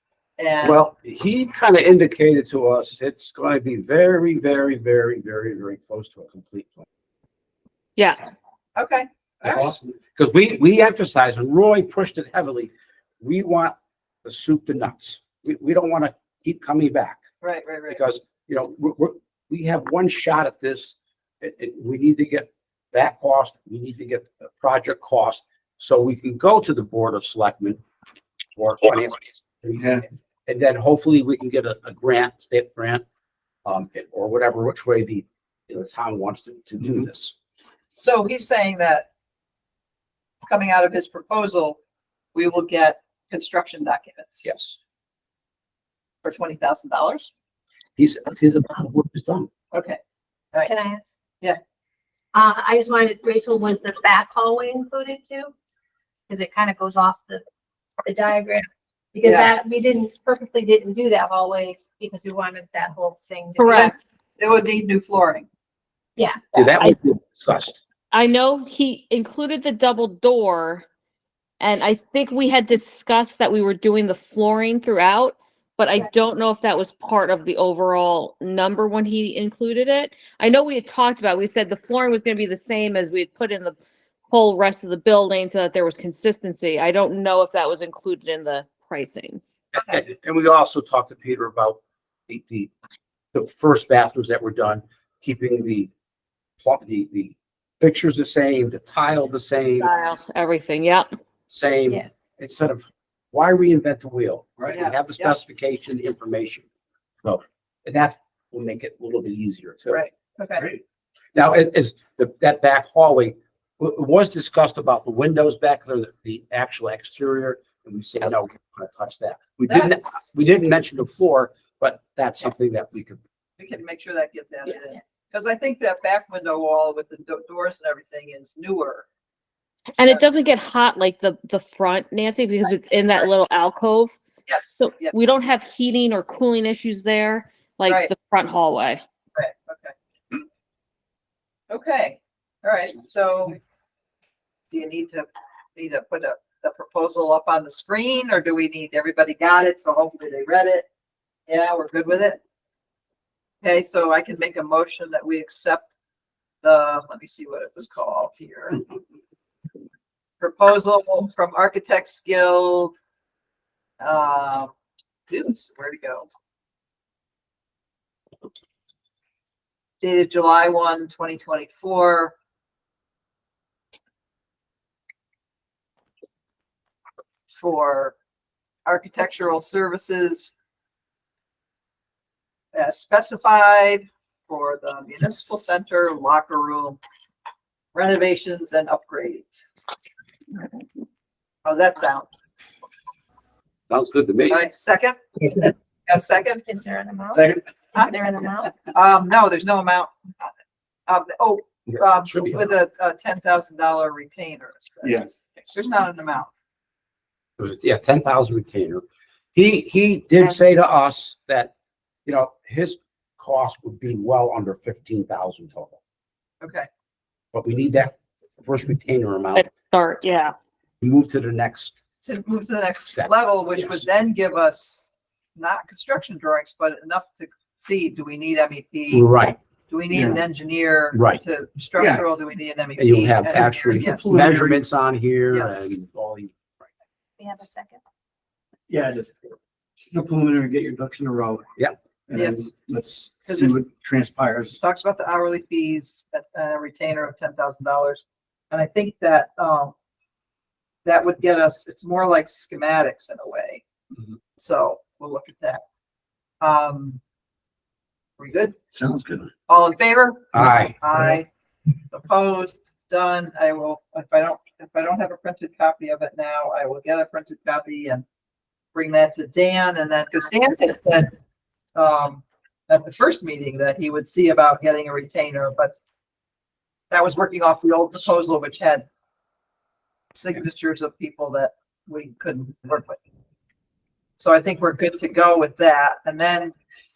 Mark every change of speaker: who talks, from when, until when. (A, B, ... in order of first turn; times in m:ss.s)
0:00.4-0:00.8 A
0:00.6-0:06.8 B
0:08.0-0:08.2 C
0:08.8-0:09.7 A
0:09.4-0:17.2 B
0:17.4-0:18.0 A
0:17.9-0:27.8 B
0:28.6-0:33.0 B
0:29.8-0:30.0 D
0:33.6-0:37.3 B
0:38.0-0:39.1 A
0:40.5-0:41.8 A
0:42.3-0:44.5 A
0:44.4-0:44.8 B
0:46.2-0:47.3 A
0:48.0-0:49.5 B
0:49.7-0:50.0 A
0:50.6-0:51.1 E
0:52.3-0:55.5 E
0:56.3-0:57.4 E
0:58.0-1:03.9 E
0:59.2-0:59.5 A
1:03.6-1:03.9 C
1:03.6-1:05.4 A
1:06.5-1:07.8 B
1:08.1-1:10.8 C
1:11.6-1:23.8 C
1:24.3-1:29.4 C
1:29.7-1:32.7 B
1:33.3-1:35.9 B
1:36.6-1:39.9 B
1:39.8-1:41.1 C
1:41.5-1:46.6 B
1:44.7-1:45.3 A
1:47.2-1:50.0 B
1:49.9-1:50.6 A
1:51.3-2:03.2 B
1:59.7-2:00.2 A
2:03.6-2:09.0 A
2:10.0-2:14.1 C
2:14.5-2:15.1 A
2:14.8-2:19.0 C
2:19.3-2:20.3 A
2:21.7-2:23.6 A
2:24.7-2:30.8 A
2:31.5-2:32.4 A
2:33.6-2:35.9 A
2:36.6-2:38.8 A
2:40.4-2:42.9 A
2:44.0-2:44.7 A
2:45.3-2:46.3 A
2:50.0-2:52.3 A
2:57.5-2:58.1 A
2:58.8-3:00.5 A
3:02.7-3:07.0 A
3:07.9-3:09.8 A
3:11.6-3:12.3 A
3:13.9-3:14.7 B
3:14.5-3:16.6 A
3:16.6-3:17.4 E
3:17.3-3:17.6 D
3:17.9-3:20.5 A
3:18.0-3:18.7 E
3:21.1-3:26.5 A
3:21.9-3:22.7 B
3:25.0-3:25.3 D
3:27.6-3:29.0 B
3:29.5-3:31.7 B
3:32.2-3:36.0 B
3:36.6-3:36.9 A
3:37.5-3:39.7 B
3:39.5-3:40.5 C
3:41.0-3:41.9 B
3:42.2-3:49.3 A
3:43.2-3:44.0 B
3:49.1-3:49.6 B
3:49.9-3:54.2 A
3:50.1-3:50.4 D
3:51.1-3:51.4 B
3:52.0-3:52.2 D
3:53.0-3:56.6 B
3:53.6-3:54.8 D
3:55.5-3:56.0 A
3:57.4-3:58.0 E
3:58.9-3:59.5 D
4:00.1-4:01.7 D
4:02.3-4:04.8 D
4:02.3-4:02.9 A
4:03.4-4:03.7 A
4:04.8-4:09.9 A
4:11.0-4:13.8 A
4:14.6-4:15.8 A
4:16.6-4:17.2 A
4:18.4-4:18.8 A
4:18.9-4:19.5 D
4:19.7-4:21.5 A
4:20.5-4:21.0 B
4:22.1-4:28.2 A
4:28.9-4:31.3 A
4:31.9-4:35.9 A
4:37.1-4:39.0 A
4:40.3-4:43.2 A
4:44.4-4:46.7 A